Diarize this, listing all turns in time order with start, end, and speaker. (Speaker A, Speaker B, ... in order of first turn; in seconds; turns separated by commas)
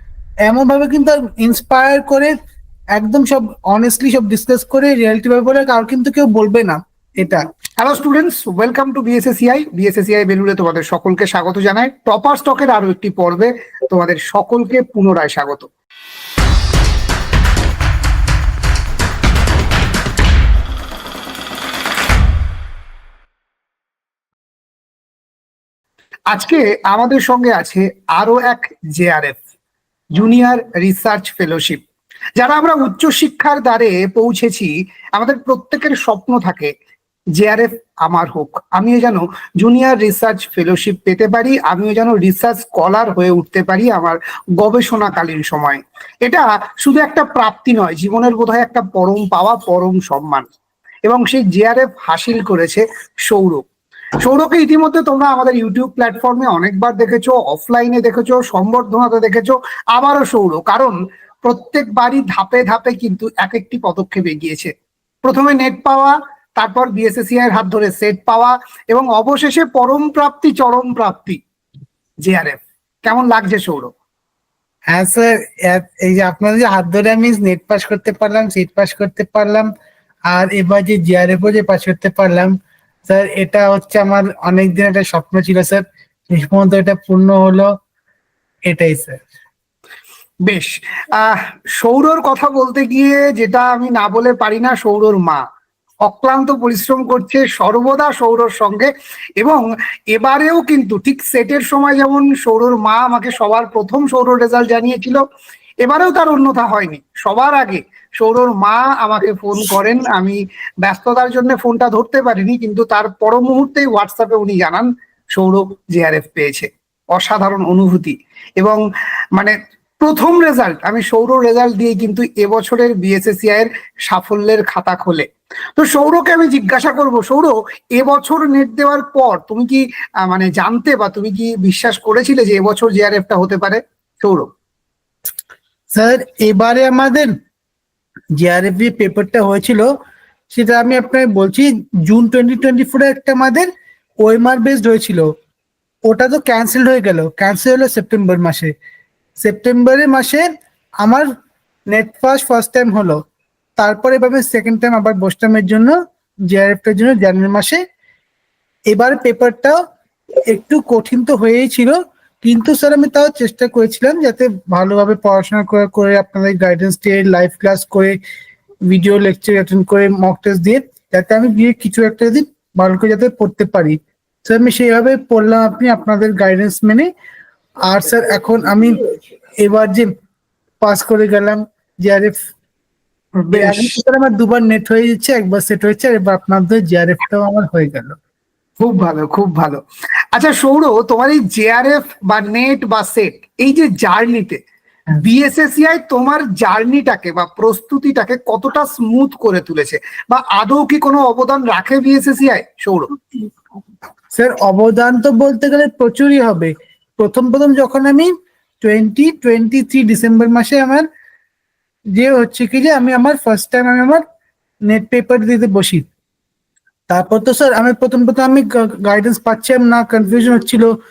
Speaker A: 0.4-2.3, Speaker A: 2.9-7.4, Speaker B: 7.8-15.7, Speaker B: 26.3-29.4, Speaker B: 30.1-31.8, Speaker B: 32.4-36.7, Speaker B: 37.4-50.4, Speaker B: 51.0-53.7, Speaker B: 54.2-64.7, Speaker B: 65.2-71.4, Speaker B: 72.2-73.9, Speaker A: 74.9-79.7, Speaker A: 80.3-82.5, Speaker A: 83.1-87.7, Speaker A: 88.7-89.2, Speaker B: 90.5-95.4, Speaker B: 96.0-105.2, Speaker B: 105.8-118.8, Speaker B: 119.3-134.5, Speaker A: 135.9-137.3, Speaker A: 138.4-139.9, Speaker A: 140.5-143.7, Speaker A: 144.2-145.3, Speaker A: 146.1-148.7, Speaker A: 149.4-150.5, Speaker A: 151.0-151.3, Speaker A: 151.9-153.2, Speaker A: 153.8-156.0, Speaker A: 156.5-157.8, Speaker A: 158.9-159.8, Speaker A: 160.5-168.2, Speaker A: 168.9-177.1, Speaker A: 177.8-179.0, Speaker A: 179.6-180.1, Speaker A: 180.8-182.4, Speaker B: 183.4-183.9, Speaker A: 183.5-188.2, Speaker B: 188.8-189.8, Speaker B: 190.3-194.6, Speaker B: 195.2-203.1, Speaker A: 204.3-211.1, Speaker A: 212.2-214.2, Speaker A: 214.9-216.1, Speaker A: 217.1-220.9